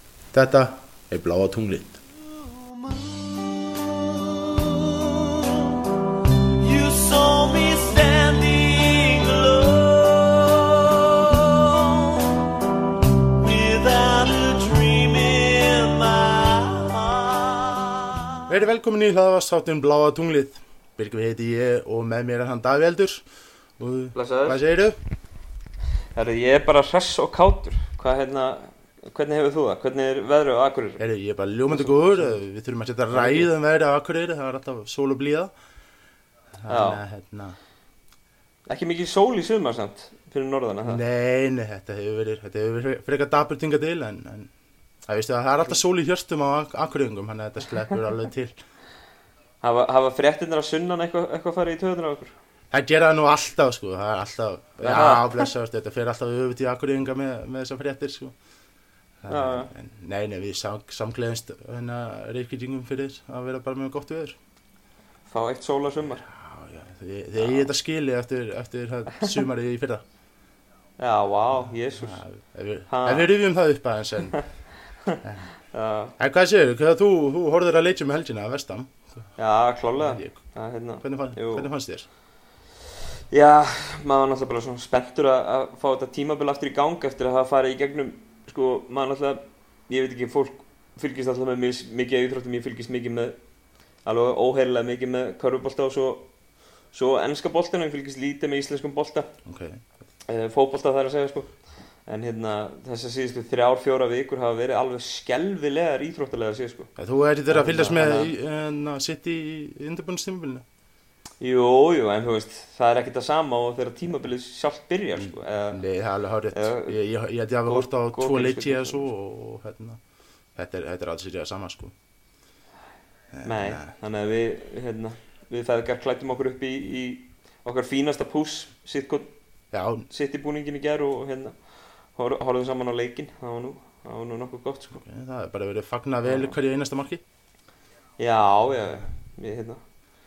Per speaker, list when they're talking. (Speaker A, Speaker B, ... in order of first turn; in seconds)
Speaker A: 0.3-2.0, 18.5-23.2, 23.8-25.0, 31.0-35.5, 36.6-37.6, 40.8-44.5, 45.1-48.6, 52.7-58.3, 59.2-64.4, 66.2-70.0, 72.0-74.5, 75.2-75.5, 76.2-79.2, 80.0-80.4, 81.0-82.1, 99.4-99.8, 107.0-110.6, 115.2-120.0, 120.5-121.9, 123.3-123.9, 129.7-130.1, 134.9-137.2
Speaker B: 6.6-11.8, 13.4-17.7
Speaker C: 24.1-24.6, 26.1-31.0, 31.7-32.4, 33.1-33.5, 36.7-37.0, 38.7-41.0, 49.6-52.3, 54.8-55.5, 59.3-59.7, 65.2-66.2, 67.4-67.7, 71.0-72.2, 72.9-73.3, 75.7-76.1, 79.4-81.7, 83.3-93.3, 94.0-96.3, 96.9-99.3, 100.3-106.9, 107.5-108.3, 111.4-115.8, 116.5-117.0, 117.7-119.1, 123.4-129.3, 130.1-131.6, 132.1-135.0, 136.2-136.6, 138.2-139.8